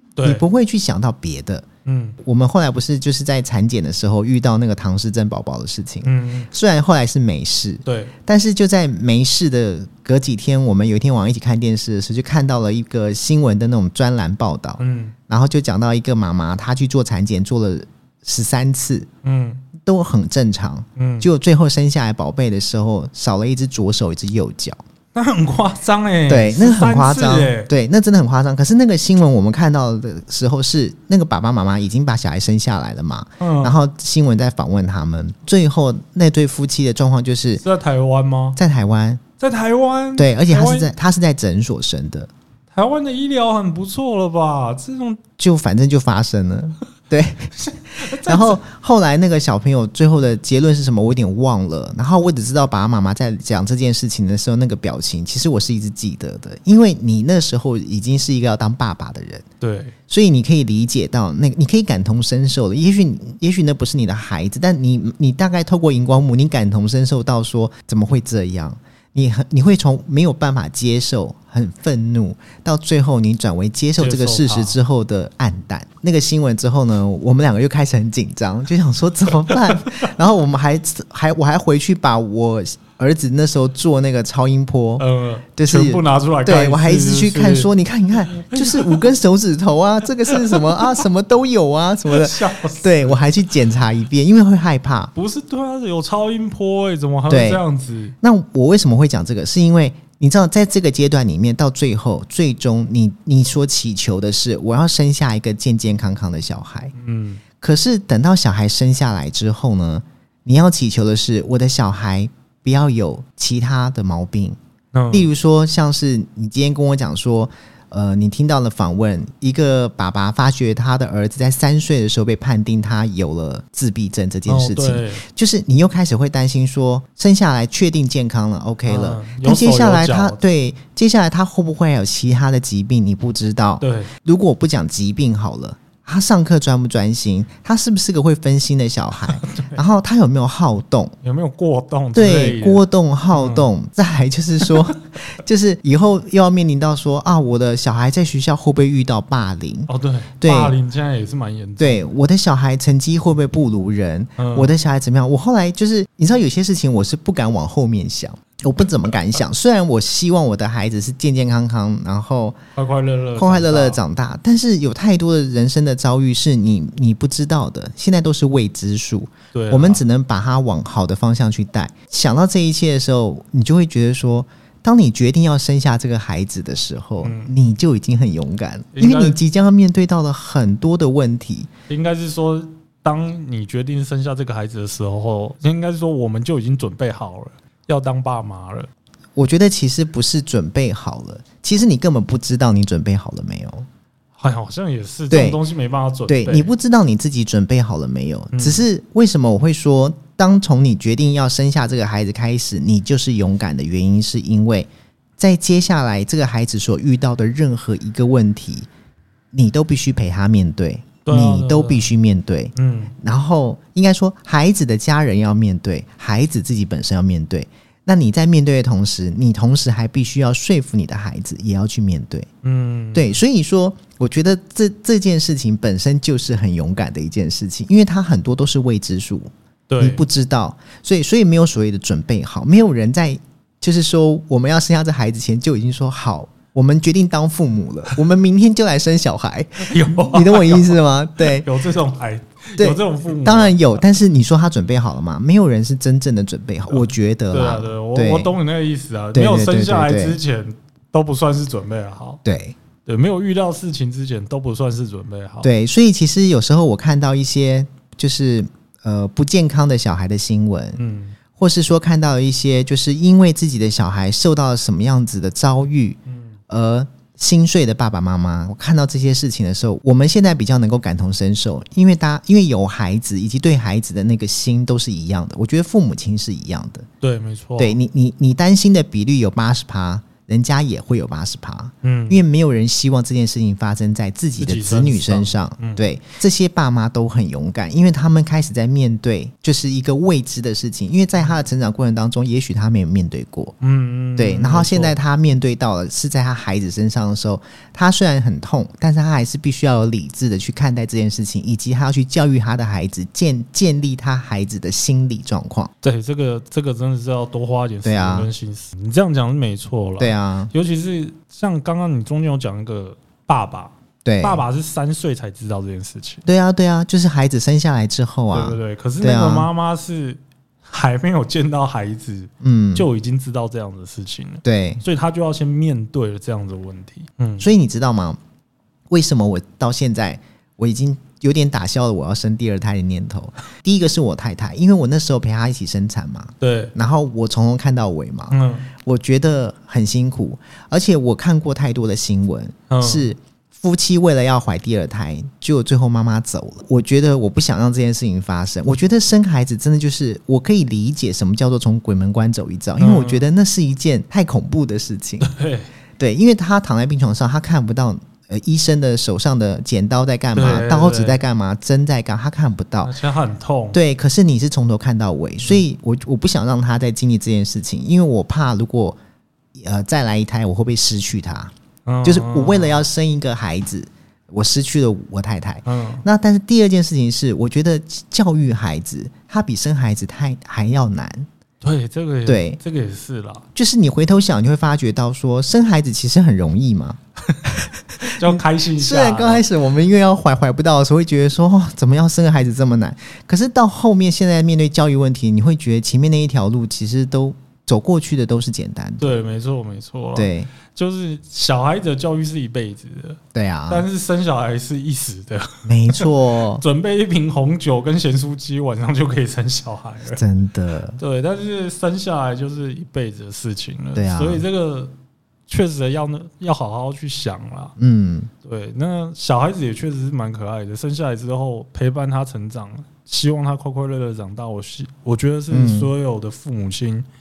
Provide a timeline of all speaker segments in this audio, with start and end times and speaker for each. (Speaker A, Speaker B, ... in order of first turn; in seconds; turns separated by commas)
Speaker A: 0.1-0.4, Speaker B: 0.2-1.6, Speaker A: 1.8-2.2, Speaker B: 2.2-19.1, Speaker A: 6.0-6.5, Speaker A: 7.8-8.1, Speaker A: 14.8-15.1, Speaker A: 19.2-19.6, Speaker B: 19.8-24.8, Speaker A: 20.9-21.3, Speaker A: 25.1-27.7, Speaker B: 26.3-37.6, Speaker A: 33.4-33.8, Speaker A: 37.6-38.6, Speaker B: 38.5-39.2, Speaker A: 39.4-40.9, Speaker B: 40.1-42.3, Speaker A: 42.7-45.2, Speaker B: 45.4-59.4, Speaker A: 47.6-48.6, Speaker A: 59.6-59.9, Speaker B: 60.1-85.0, Speaker A: 74.0-74.8, Speaker A: 79.8-80.1, Speaker A: 85.0-87.7, Speaker B: 85.5-95.1, Speaker A: 88.3-89.1, Speaker A: 90.3-90.8, Speaker A: 92.1-93.2, Speaker A: 95.1-98.1, Speaker B: 97.3-97.6, Speaker B: 98.2-106.9, Speaker A: 107.0-107.4, Speaker B: 107.6-114.6, Speaker A: 114.9-115.3, Speaker B: 115.1-141.2, Speaker A: 124.5-125.2, Speaker A: 128.8-130.4, Speaker A: 133.8-134.1, Speaker A: 139.3-139.8, Speaker A: 141.2-143.7, Speaker B: 142.1-149.9, Speaker A: 149.9-152.0, Speaker B: 150.4-150.8, Speaker B: 151.8-162.6, Speaker A: 154.4-154.7, Speaker A: 162.8-164.0, Speaker B: 163.3-181.7, Speaker A: 169.5-170.0, Speaker A: 177.2-177.5, Speaker A: 178.9-179.4, Speaker A: 181.9-188.9, Speaker B: 189.3-193.9, Speaker A: 194.4-196.7, Speaker B: 195.3-195.6, Speaker B: 196.3-208.9, Speaker A: 198.5-198.8, Speaker B: 209.5-222.5, Speaker A: 211.2-212.1, Speaker A: 212.7-213.1, Speaker A: 222.6-223.3, Speaker B: 223.1-241.7, Speaker A: 229.9-230.2, Speaker A: 239.8-243.8, Speaker B: 242.8-248.5, Speaker A: 246.9-252.4, Speaker B: 249.3-250.4, Speaker B: 252.4-252.7, Speaker A: 253.0-255.7, Speaker B: 255.6-261.0, Speaker A: 260.9-261.4, Speaker B: 261.6-277.1, Speaker A: 266.3-266.5, Speaker A: 277.2-278.0, Speaker B: 277.8-293.7, Speaker A: 282.0-282.4, Speaker A: 284.6-286.0, Speaker A: 293.8-295.1, Speaker B: 294.4-305.9, Speaker A: 306.0-316.4, Speaker B: 308.0-308.5, Speaker B: 310.2-310.7, Speaker B: 314.2-314.6, Speaker B: 316.4-319.7, Speaker A: 318.5-327.7, Speaker B: 322.6-323.1, Speaker B: 324.6-325.0, Speaker B: 327.6-328.4, Speaker B: 329.1-355.5, Speaker A: 336.6-336.9, Speaker A: 338.5-338.9, Speaker A: 342.9-343.3, Speaker A: 353.0-353.4, Speaker A: 355.4-355.9, Speaker B: 356.2-363.1, Speaker A: 360.5-361.4, Speaker A: 363.0-364.0, Speaker B: 363.9-369.2, Speaker B: 369.7-371.7, Speaker A: 372.1-373.0, Speaker B: 372.2-381.5, Speaker A: 375.9-376.2, Speaker A: 381.8-383.6, Speaker B: 382.4-382.8, Speaker B: 383.7-399.3, Speaker A: 388.2-389.6, Speaker A: 399.2-406.3, Speaker B: 400.3-400.7, Speaker B: 403.5-404.1, Speaker B: 405.8-406.8, Speaker A: 406.8-410.4, Speaker B: 410.3-411.2, Speaker A: 411.2-415.1, Speaker B: 414.1-414.6, Speaker A: 415.7-417.9, Speaker B: 418.0-418.5, Speaker A: 418.6-427.2, Speaker B: 425.7-426.1